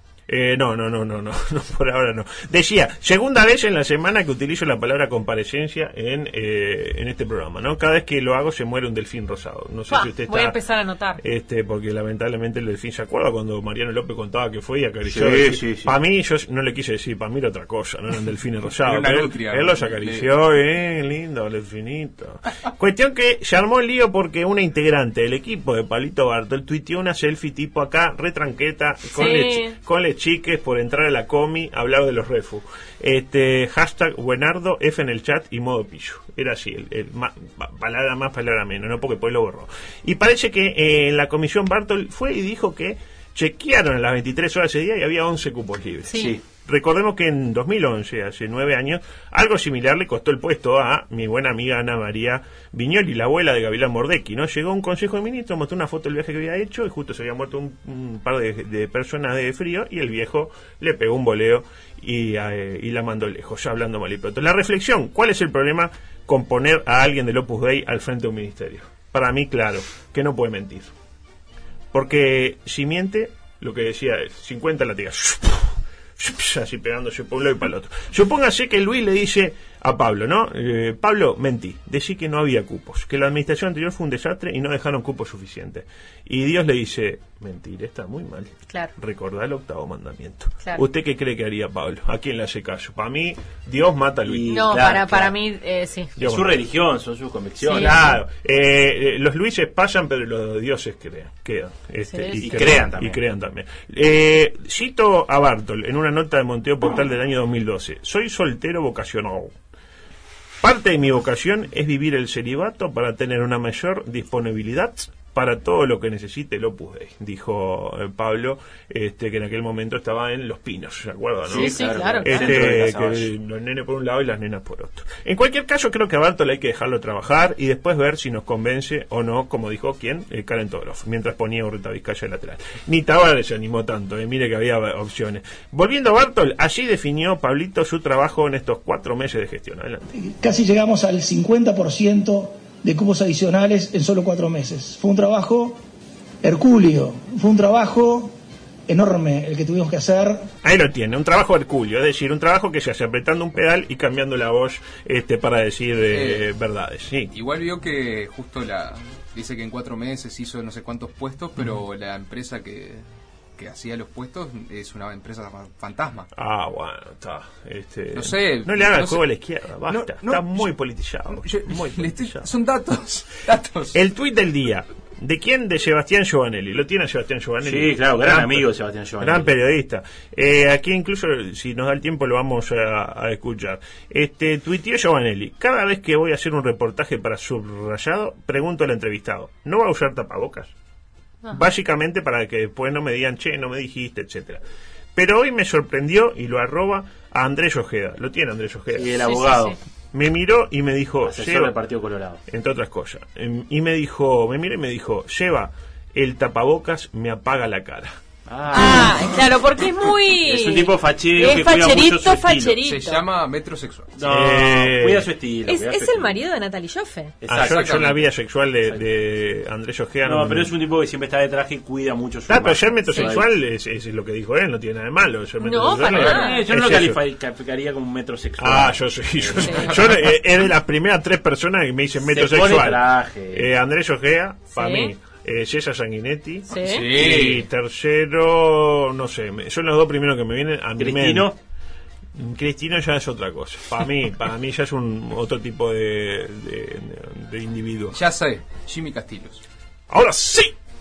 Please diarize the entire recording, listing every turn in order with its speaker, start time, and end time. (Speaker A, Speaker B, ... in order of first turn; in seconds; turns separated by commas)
Speaker A: 0.3-10.6, Speaker B: 9.9-11.2, Speaker A: 11.2-70.9, Speaker C: 15.1-15.9, Speaker D: 18.8-20.3, Speaker B: 29.1-29.8, Speaker B: 46.1-46.4, Speaker C: 46.1-46.4, Speaker A: 71.9-94.5, Speaker C: 94.2-95.3, Speaker B: 94.5-96.1, Speaker A: 96.2-96.6, Speaker C: 96.2-98.2, Speaker B: 97.6-98.0, Speaker A: 97.7-109.5, Speaker B: 102.0-102.5, Speaker C: 102.4-103.2, Speaker A: 110.6-140.1, Speaker C: 121.5-123.3, Speaker B: 121.5-122.7, Speaker E: 140.1-145.8, Speaker E: 146.4-148.3, Speaker E: 148.9-150.5, Speaker A: 150.6-157.3, Speaker D: 156.1-156.5, Speaker D: 157.3-163.0, Speaker D: 163.6-166.3, Speaker A: 166.3-172.5, Speaker D: 168.1-169.2, Speaker D: 169.9-170.7, Speaker D: 171.3-174.0, Speaker A: 173.9-178.7, Speaker C: 177.6-179.5, Speaker A: 179.2-190.7, Speaker A: 191.5-194.6, Speaker A: 195.1-199.2, Speaker C: 198.9-199.8, Speaker B: 199.2-199.8, Speaker A: 200.1-201.7, Speaker C: 201.2-202.4, Speaker A: 202.5-208.1, Speaker C: 208.4-209.2, Speaker B: 208.7-213.2, Speaker C: 210.4-212.8, Speaker D: 212.8-214.1, Speaker C: 214.2-216.4, Speaker A: 214.2-215.3, Speaker B: 215.7-217.4, Speaker C: 217.4-218.2, Speaker A: 217.5-220.7, Speaker D: 217.5-218.1, Speaker C: 220.2-223.4, Speaker A: 222.5-227.2, Speaker B: 223.1-223.4, Speaker B: 225.6-226.7, Speaker C: 226.1-230.0, Speaker A: 228.6-241.5, Speaker C: 232.2-233.7, Speaker B: 234.7-235.1, Speaker B: 236.7-237.1, Speaker D: 236.8-237.6, Speaker C: 241.0-241.6, Speaker A: 242.3-248.2, Speaker D: 248.1-249.6, Speaker A: 250.1-250.7